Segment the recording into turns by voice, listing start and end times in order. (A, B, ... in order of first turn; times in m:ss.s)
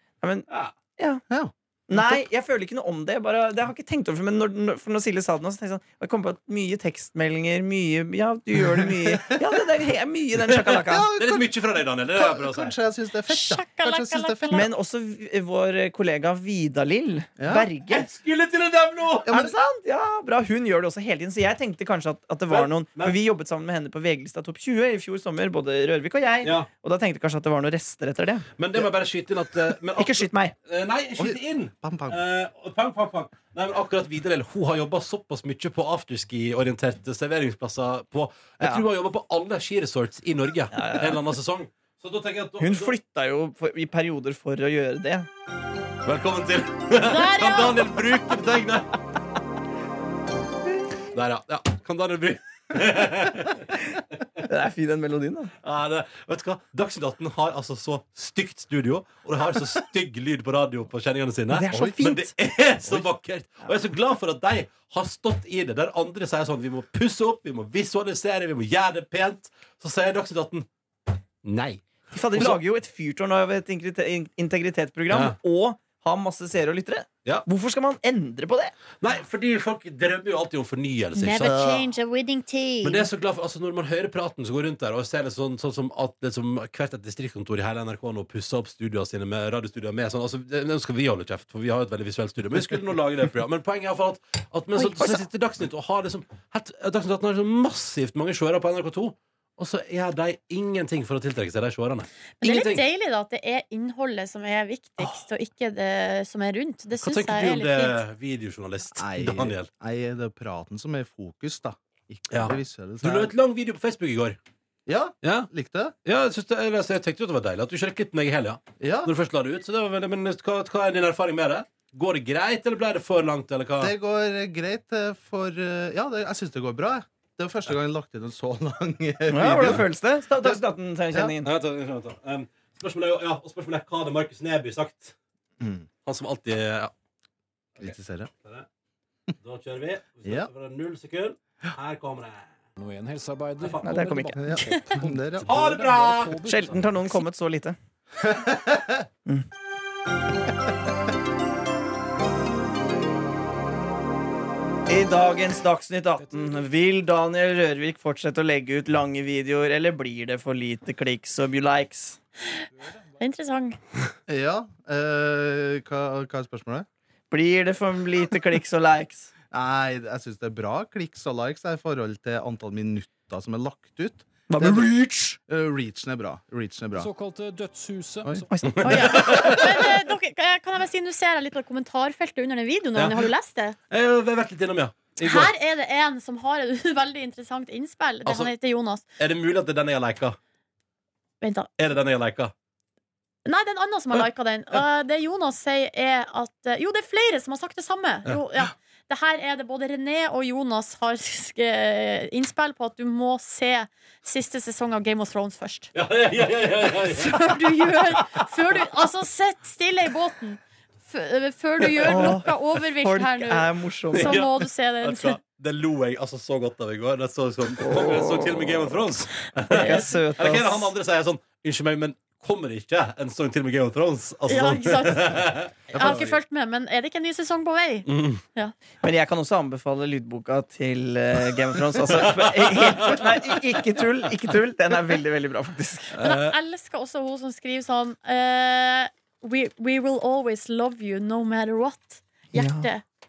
0:00.2-0:01.2 A
0:01.3-0:02.2 B
0:01.9-0:11.1 A
0:10.5-0:12.7 C
0:10.8-0:14.7 B
0:13.3-0:14.7 D
0:14.5-0:18.1 A
0:17.4-0:17.7 B
0:17.9-0:19.3 C
0:19.2-0:19.5 B
0:19.3-0:28.5 A
0:22.5-0:23.2 C
0:28.6-0:42.9 C
0:30.0-0:30.5 A
0:31.2-0:32.2 B
0:40.7-0:41.2 A
0:42.6-0:45.3 A
0:46.0-0:48.9 C
0:47.0-0:48.0 D
0:51.1-0:53.7 C
0:54.5-0:55.5 A
0:55.6-1:10.7 C
1:01.5-1:02.3 A
1:01.7-1:02.0 B
1:11.4-1:11.8 C
1:12.1-1:18.7 A
1:12.3-1:12.6 C
1:15.1-1:15.4 C
1:19.0-1:21.6 C
1:21.2-1:23.1 D
1:21.4-1:21.8 A
1:22.8-1:42.8 C
1:34.8-1:35.2 A
1:42.4-1:48.0 D
1:47.0-1:49.7 C
1:49.0-1:53.3 B
1:52.3-1:54.4 C
1:54.8-1:55.9 B
1:55.2-1:55.5 C
1:56.0-2:03.9 C
1:58.8-1:59.1 B
2:03.8-2:11.3 B
2:09.3-2:11.5 A
2:11.4-2:15.1 C
2:15.6-2:15.9 B
2:16.0-2:16.9 C
2:17.8-2:18.3 B
2:19.4-2:22.5 C
2:22.8-2:27.0 E
2:23.6-2:23.9 C
2:23.8-2:24.4 A
2:24.4-2:25.5 B
2:25.4-2:26.4 C
2:26.4-2:27.8 A
2:28.2-2:29.0 B
2:34.9-2:42.2 A
2:43.2-2:43.8 D
2:44.3-2:46.8 B
2:47.3-2:49.3 A
2:49.5-2:54.9 B
2:54.5-2:55.4 A
2:55.5-2:57.1 B
2:57.0-2:58.5 E
2:58.5-2:59.5 A
2:58.8-2:59.8 C
2:58.8-3:03.8 D
3:02.9-3:03.3 C
3:03.9-3:05.5 C
3:05.2-3:09.0 D
3:08.2-3:08.5 C
3:09.2-3:10.4 C
3:11.4-3:11.7 D
3:11.8-3:12.5 C
3:13.4-3:25.9 D
3:25.9-3:27.6 C
3:27.0-3:35.4 D
3:32.0-3:32.3 C
3:32.0-3:34.4 A
3:34.1-3:46.4 C
3:37.8-3:38.9 A
3:39.7-3:40.9 A
3:39.7-3:40.0 D
3:44.5-3:48.7 D
3:45.9-3:46.2 B
3:48.1-3:48.4 C
3:49.0-3:56.1 A
3:52.1-3:53.6 C
3:56.1-3:56.6 C
3:56.2-4:03.0 D
4:02.5-4:02.9 A